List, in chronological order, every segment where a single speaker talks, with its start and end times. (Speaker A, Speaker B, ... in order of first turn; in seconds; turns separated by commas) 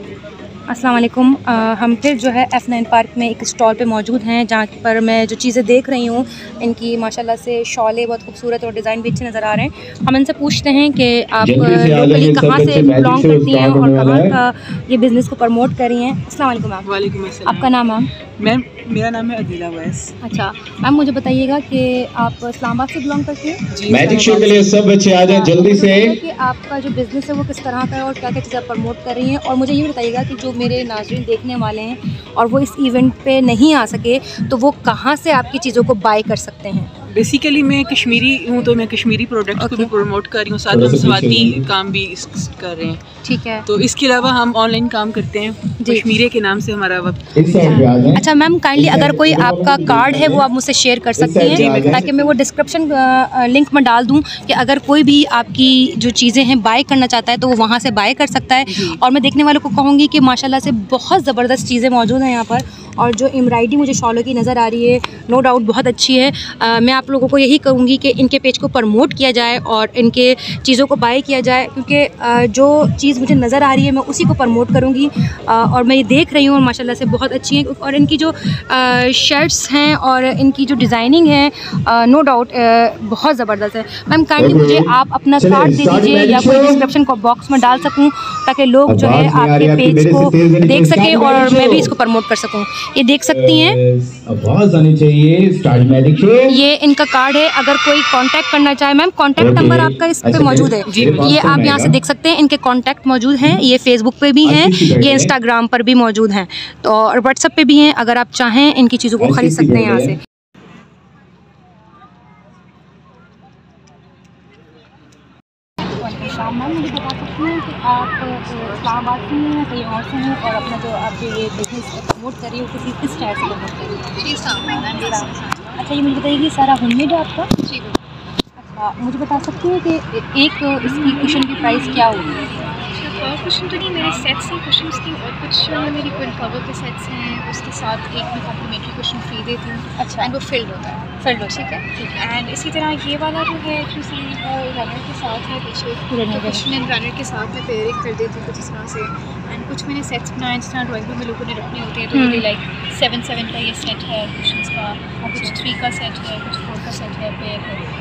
Speaker A: 0.7-16.9, Speaker B: 11.4-14.4, Speaker C: 16.8-17.7, Speaker A: 17.4-18.1, Speaker C: 18.4-20.1, Speaker A: 20.2-23.6, Speaker C: 23.7-24.6, Speaker B: 23.9-26.2, Speaker A: 25.2-36.9, Speaker C: 37.1-43.0, Speaker A: 39.6-39.9, Speaker B: 40.7-41.7, Speaker A: 43.2-43.6, Speaker C: 43.7-47.8, Speaker A: 45.8-46.1, Speaker B: 47.4-48.2, Speaker A: 48.1-93.8, Speaker B: 48.7-50.4, Speaker B: 51.2-52.1, Speaker C: 51.5-52.2, Speaker C: 58.7-59.0, Speaker B: 84.4-86.9, Speaker B: 88.9-91.9, Speaker B: 93.3-96.6, Speaker A: 96.5-110.2, Speaker B: 99.4-101.9, Speaker C: 100.9-101.2, Speaker B: 104.4-105.3, Speaker B: 109.2-110.1, Speaker A: 116.0-127.5, Speaker D: 124.2-125.8, Speaker D: 127.6-128.0, Speaker A: 128.6-132.3, Speaker D: 130.8-157.9, Speaker A: 140.0-140.3, Speaker A: 141.2-142.2, Speaker A: 146.1-146.7, Speaker A: 152.1-152.4, Speaker A: 155.2-155.6